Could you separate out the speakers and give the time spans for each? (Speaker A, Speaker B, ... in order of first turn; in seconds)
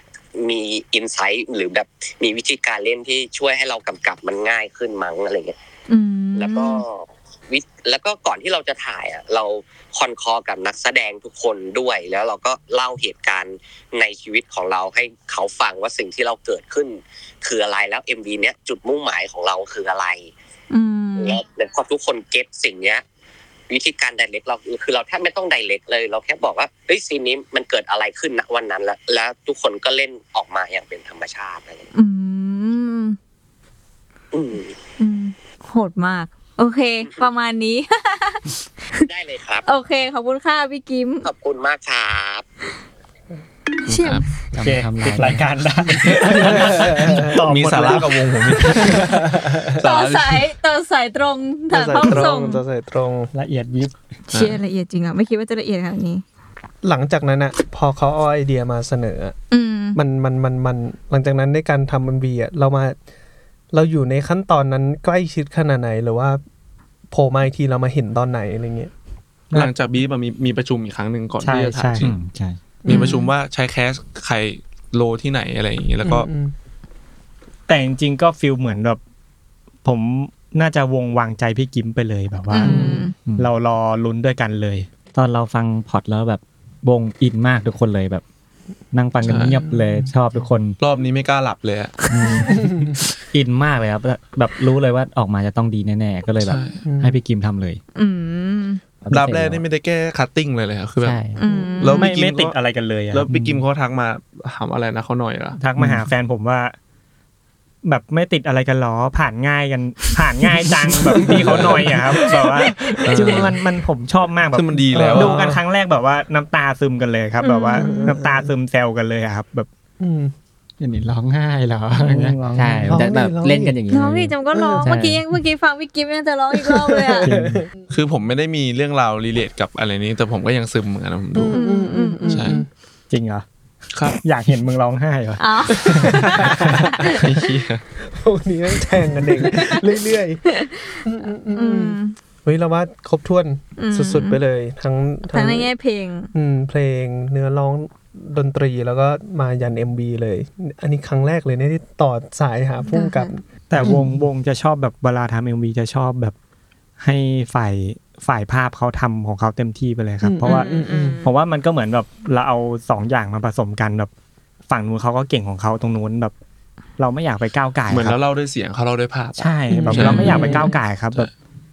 Speaker A: 0.4-5.5, 6.3-20.3, 21.2-23.0, 23.7-31.9, 34.3-34.8, 39.0-39.7, 41.2-42.4
Speaker B: 5.9-6.8, 20.7-21.4, 31.9-33.2, 35.0-39.0, 39.6-41.2, 43.8-44.3, 48.5-49.1, 49.8-52.6, 54.3-56.2, 59.5-60.0, 72.9-73.3, 82.5-83.2, 97.9-98.8, 101.4-102.1, 117.4-118.1, 123.9-127.3, 131.5-132.6, 135.4-137.2, 139.4-139.8, 140.5-142.2, 143.8-144.4, 145.3-146.3, 152.8-153.3, 160.4-161.3
Speaker C: 43.9-44.2, 46.1-50.5, 54.3-54.6, 69.5-72.1, 72.8-76.3, 82.6-83.0, 89.2-89.6, 90.8-92.5, 96.4-96.8, 99.1-101.2, 101.8-102.5, 103.1-105.6, 111.2-113.6, 114.5-115.4, 127.9-131.6, 132.2-132.6, 133.9-134.2, 137.0-137.8, 167.9-170.5
Speaker D: 44.5-45.4, 46.1-47.2, 72.0-72.5, 83.2-83.5, 85.1-88.2, 88.9-90.8, 92.1-92.6, 93.3-97.8, 120.8-123.1, 170.0-170.5
Speaker E: 44.6-48.1, 53.3-53.9, 71.4-72.5, 77.7-79.0, 79.8-84.9, 102.0-103.3, 105.6-106.7, 107.8-119.7, 121.9-122.4, 127.2-127.6, 133.1-133.4, 134.2-136.5, 153.7-156.3, 157.0-164.1, 164.7-166.3, 167.0-168.2, 169.4-171.3
Speaker F: 45.1-45.4, 99.0-99.6, 101.0-101.4, 103.3-103.6, 122.5-125.2
Speaker G: 46.7-47.4, 48.8-49.7, 51.7-53.3, 56.8-59.4, 59.9-63.0, 63.7-66.4, 67.1-68.9, 72.8-73.2, 76.0-76.5, 89.3-90.5, 92.5-92.9, 96.8-97.2, 101.5-101.7, 114.9-115.6, 117.8-118.5, 120.0-120.3, 122.9-123.8, 124.5-124.9, 126.5-127.7, 131.3-132.7, 135.7-137.3, 138.0-140.4, 141.0-145.7, 146.3-154.1, 160.2-161.2, 169.7-170.7